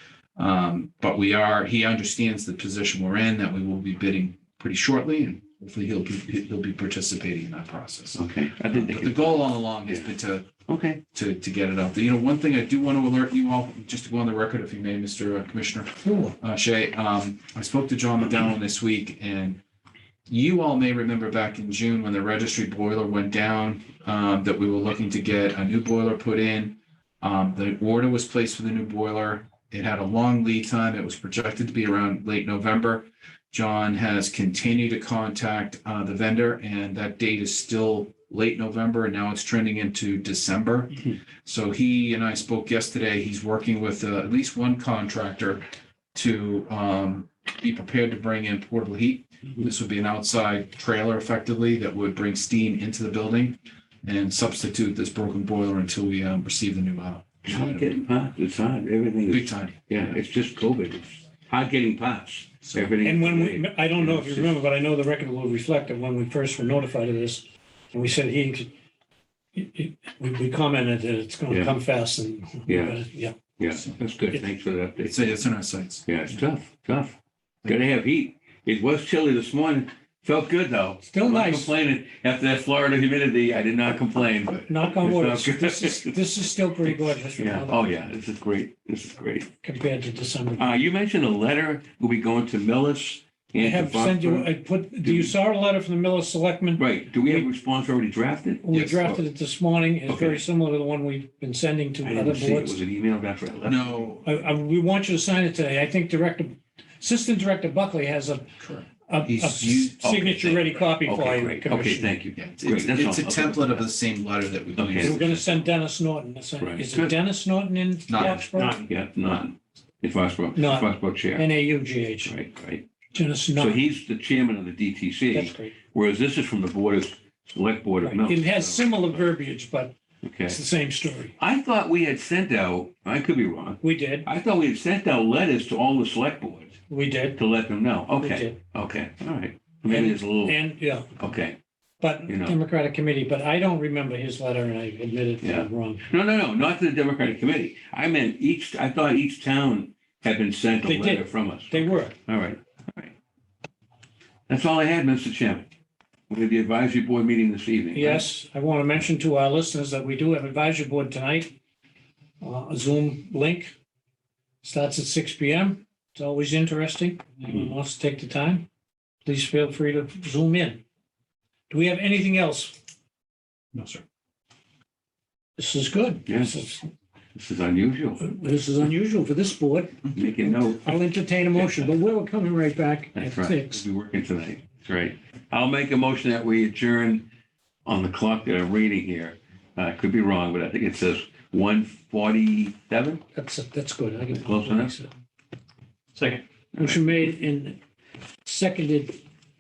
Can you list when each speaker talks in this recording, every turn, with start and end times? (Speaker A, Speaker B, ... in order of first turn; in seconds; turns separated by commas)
Speaker A: 0.4-10.5, Speaker B: 8.1-10.1, Speaker B: 10.7-11.0, Speaker A: 11.1-19.6, Speaker A: 20.3-58.0, Speaker B: 57.4-64.5, Speaker A: 59.3-60.2, Speaker A: 62.6-62.9, Speaker C: 63.0-68.7, Speaker C: 69.5-73.4, Speaker B: 71.5-71.8, Speaker B: 72.7-73.0, Speaker B: 73.6-75.3, Speaker A: 75.0-76.4, Speaker B: 76.0-86.2, Speaker C: 81.0-81.7, Speaker C: 84.7-87.8, Speaker B: 86.8-89.5, Speaker C: 89.6-90.8, Speaker B: 90.5-94.5, Speaker C: 93.6-97.5, Speaker B: 95.0-95.3, Speaker B: 96.8-99.2, Speaker C: 98.6-102.8, Speaker B: 100.0-100.4, Speaker B: 102.0-104.1, Speaker A: 103.6-104.4, Speaker C: 104.2-112.2, Speaker A: 108.6-110.0, Speaker B: 110.0-113.8, Speaker A: 112.3-115.5, Speaker B: 114.7-115.2, Speaker C: 115.0-118.8, Speaker B: 116.6-117.2, Speaker A: 118.1-119.4, Speaker B: 118.2-121.5, Speaker C: 120.5-122.3, Speaker B: 122.2-122.8, Speaker C: 123.1-123.8, Speaker B: 123.5-129.2, Speaker C: 125.3-125.8, Speaker C: 128.0-129.9, Speaker B: 130.2-130.6, Speaker C: 130.5-131.3, Speaker B: 131.4-136.8, Speaker C: 133.8-134.3, Speaker C: 136.9-137.4, Speaker B: 137.4-140.6, Speaker C: 138.2-138.6, Speaker C: 139.9-141.1, Speaker B: 141.2-141.6, Speaker C: 142.0-146.1, Speaker B: 142.3-142.6, Speaker B: 145.4-153.1, Speaker C: 150.8-152.2, Speaker B: 154.5-155.7, Speaker B: 156.3-158.3, Speaker C: 157.9-161.5, Speaker C: 162.4-163.7, Speaker C: 164.6-168.7, Speaker B: 167.5-167.7, Speaker C: 169.2-170.8, Speaker C: 171.7-172.8, Speaker A: 173.7-174.0, Speaker C: 175.6-176.9, Speaker B: 176.3-176.6, Speaker B: 177.3-178.2, Speaker C: 178.2-183.8, Speaker B: 180.1-181.0, Speaker B: 181.5-181.9, Speaker B: 183.1-187.2, Speaker B: 187.8-193.2, Speaker C: 193.3-195.1, Speaker B: 194.3-194.9, Speaker C: 196.2-197.8, Speaker B: 196.7-197.0, Speaker C: 198.4-199.2